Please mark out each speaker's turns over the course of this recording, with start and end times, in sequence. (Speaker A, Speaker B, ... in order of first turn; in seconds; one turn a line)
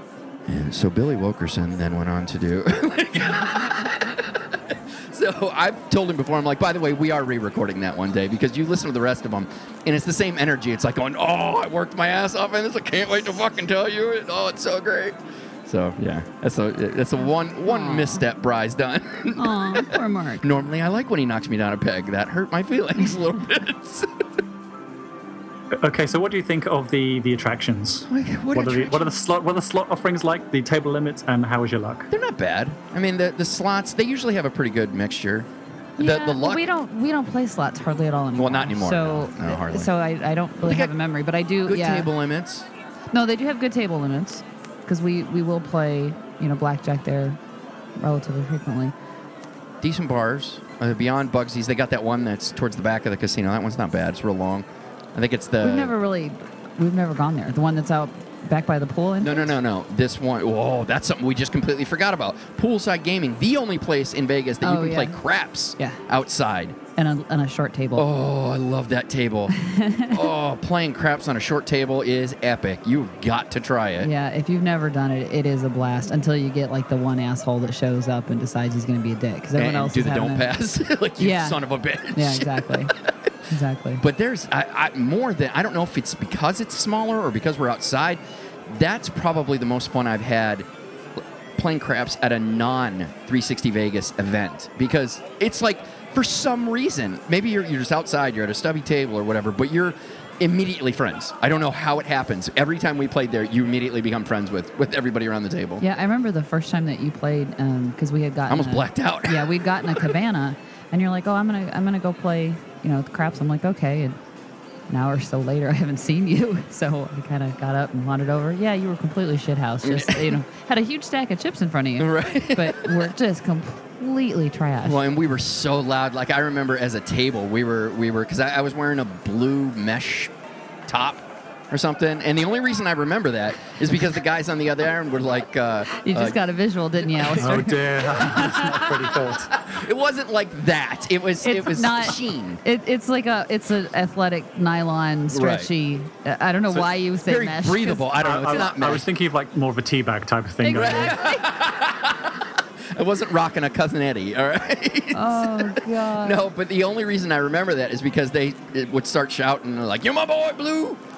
Speaker A: 0.5-24.2
Speaker B: 17.6-18.2
Speaker B: 19.4-20.4
Speaker C: 25.8-32.1
Speaker A: 28.1-29.1
Speaker A: 32.1-35.5
Speaker A: 36.0-36.7
Speaker B: 36.0-42.1
Speaker A: 38.4-39.9
Speaker A: 40.6-40.9
Speaker A: 41.6-42.7
Speaker B: 43.1-47.4
Speaker B: 48.0-48.9
Speaker A: 49.8-55.9
Speaker B: 55.6-59.5
Speaker A: 59.2-66.8
Speaker B: 64.6-65.2
Speaker B: 67.0-68.1
Speaker A: 68.0-69.5
Speaker B: 69.5-70.3
Speaker A: 70.1-74.1
Speaker B: 74.0-80.5
Speaker A: 79.5-83.3
Speaker B: 81.2-81.6
Speaker B: 82.1-82.9
Speaker B: 83.5-84.0
Speaker A: 84.0-105.8
Speaker B: 105.8-114.2
Speaker A: 108.5-110.2
Speaker B: 114.9-125.0
Speaker A: 119.8-120.4
Speaker A: 122.0-123.1
Speaker A: 124.8-130.3
Speaker A: 130.9-136.4
Speaker B: 135.9-138.8
Speaker A: 137.1-142.6
Speaker C: 137.4-139.7
Speaker B: 141.4-148.5
Speaker A: 145.3-145.7
Speaker A: 146.7-149.1
Speaker C: 148.2-151.2
Speaker B: 150.6-151.5
Speaker A: 150.7-161.0
Speaker B: 155.1-156.4